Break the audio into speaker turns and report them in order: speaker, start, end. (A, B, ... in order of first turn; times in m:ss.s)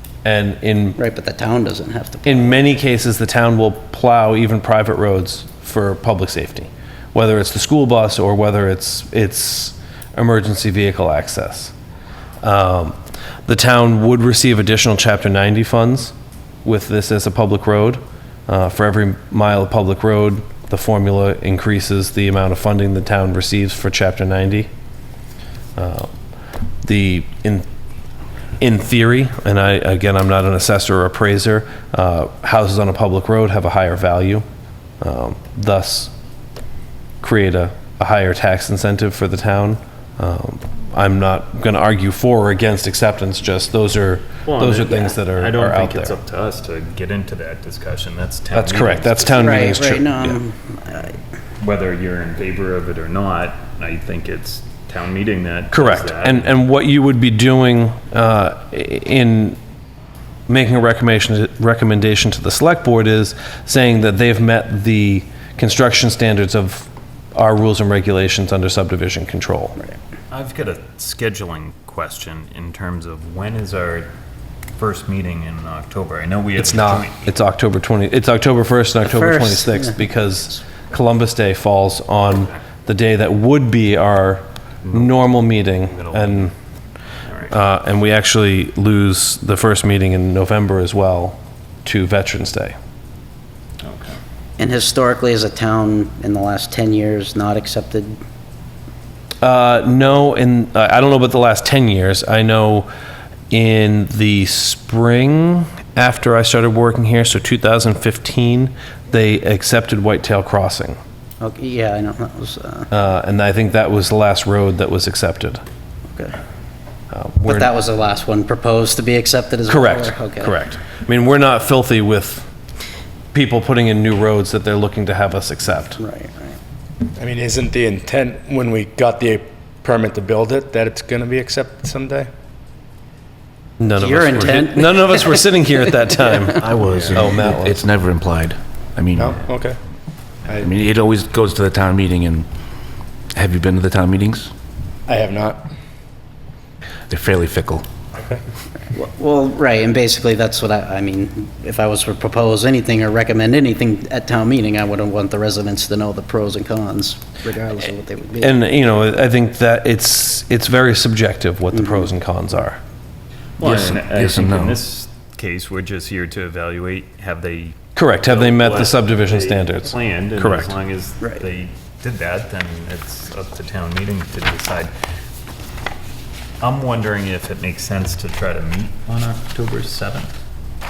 0:00.2-0:01.0 A
0:01.0-0:02.6 B
0:02.2-0:11.7 A
0:12.4-0:16.1 A
0:16.6-0:24.7 A
0:25.8-0:26.1 A
0:26.8-0:27.7 A
0:28.6-0:34.4 A
0:35.0-0:36.1 A
0:37.2-0:46.2 A
0:44.5-0:49.7 C
0:48.5-0:50.4 A
0:49.3-0:51.1 B
0:51.6-0:56.5 C
0:55.7-0:59.6 A
1:00.5-1:09.8 A
1:10.3-1:14.1 C
1:14.8-1:17.3 C
1:16.6-1:26.5 A
1:19.0-1:20.1 B
1:24.8-1:25.2 C
1:25.8-1:26.5 C
1:27.3-1:27.5 C
1:27.5-1:32.8 A
1:33.8-1:34.2 C
1:34.6-1:38.2 B
1:39.4-1:42.9 A
1:43.5-1:51.0 A
1:51.4-1:52.9 B
1:52.9-1:55.6 A
1:57.1-1:57.7 A
1:57.4-2:00.6 B
1:59.7-2:02.5 A
2:03.3-2:06.0 A
2:06.0-2:06.6 B
2:07.2-2:12.3 D
2:13.8-2:17.8 A
2:14.0-2:16.8 B
2:16.7-2:19.4 E
2:16.9-2:17.2 C
2:19.2-2:19.8 D
2:20.6-2:22.5 E
2:23.4-2:24.5 E
2:25.1-2:25.7 D
2:27.1-2:27.9 E
2:28.9-2:38.6 B
2:38.4-2:42.8 A
2:41.7-2:42.1 B
2:43.6-2:54.9 C
2:43.6-2:44.8 E
2:48.0-2:50.7 A
2:56.6-3:00.3 C